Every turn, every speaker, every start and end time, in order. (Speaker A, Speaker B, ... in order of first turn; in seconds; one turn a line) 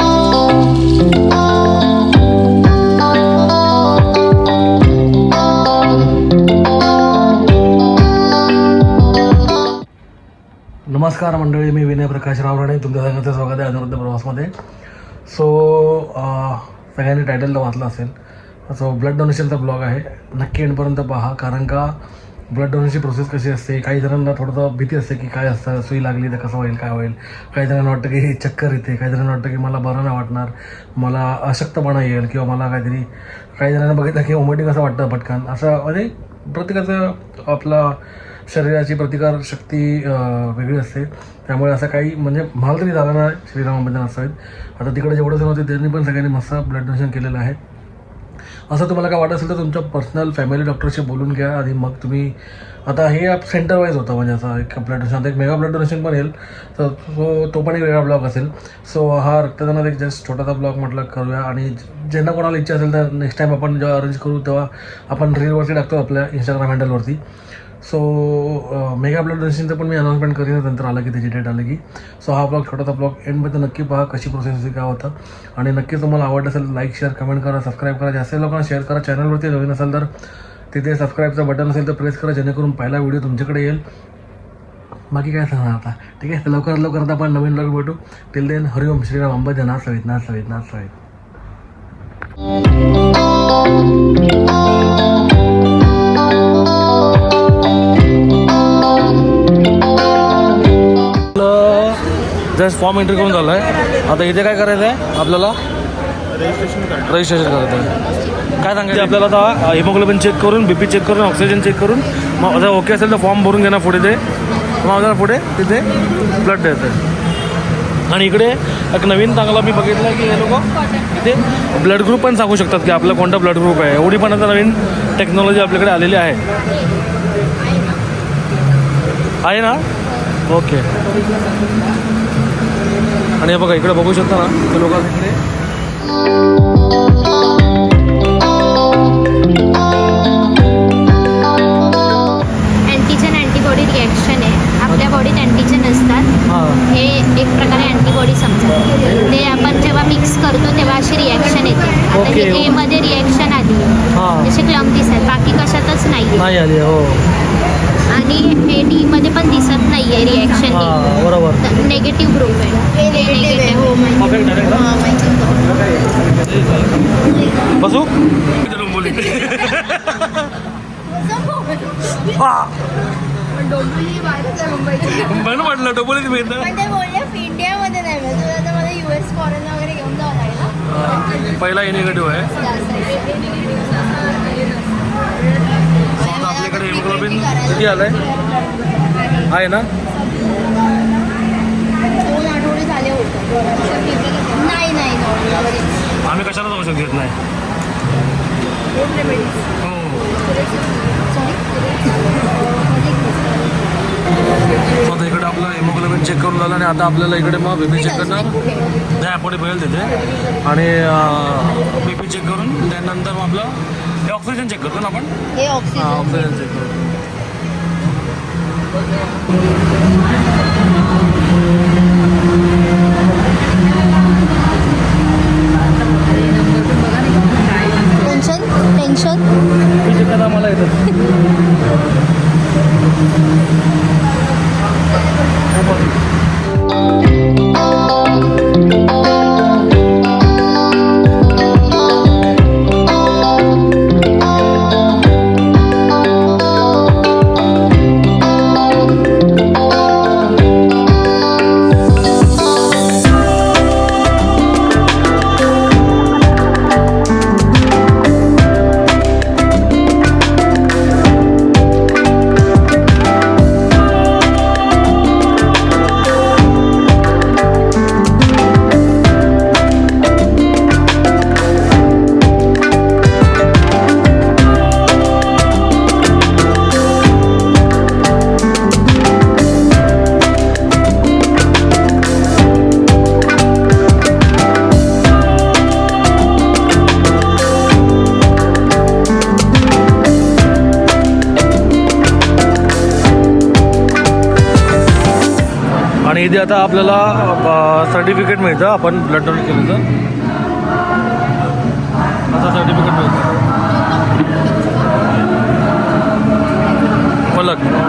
Speaker A: 10.9-14.5
Speaker A: 15.3-18.1
Speaker A: 18.7-21.9
Speaker A: 22.5-33.0
Speaker A: 33.6-47.6
Speaker A: 48.7-52.4
Speaker A: 52.9-67.2
Speaker A: 67.8-80.1
Speaker A: 80.7-83.8
Speaker A: 85.1-90.9
Speaker A: 101.3-102.0
Speaker A: 102.5-105.6
Speaker A: 107.0-107.9
Speaker A: 108.6-114.2
Speaker A: 114.8-117.0
Speaker A: 118.1-126.4
Speaker A: 129.4-129.8
Speaker A: 130.5-130.8
Speaker A: 133.4-135.3
Speaker B: 142.9-156.5
Speaker A: 146.5-146.8
Speaker A: 152.1-152.8
Speaker A: 154.1-154.5
Speaker A: 156.4-157.2
Speaker B: 158.1-164.0
Speaker A: 160.7-161.6
Speaker C: 162.9-165.7
Speaker A: 164.2-164.9
Speaker A: 167.8-170.5
Speaker C: 171.1-172.4
Speaker A: 172.3-172.7
Speaker C: 173.8-175.0
Speaker A: 175.0-176.7
Speaker C: 176.6-180.7
Speaker A: 180.9-182.6
Speaker C: 182.5-183.4
Speaker A: 186.2-188.2
Speaker C: 186.2-188.2
Speaker A: 189.5-189.8
Speaker C: 192.2-195.9
Speaker A: 196.2-197.3
Speaker A: 199.8-200.3
Speaker A: 205.0-208.6
Speaker C: 208.0-208.8
Speaker A: 209.1-213.7
Speaker A: 214.2-215.3
Speaker C: 215.5-216.5
Speaker A: 215.9-217.0
Speaker C: 228.1-229.4
Speaker A: 230.0-231.1
Speaker A: 296.2-300.0
Speaker A: 302.5-303.5
Speaker A: 307.5-307.9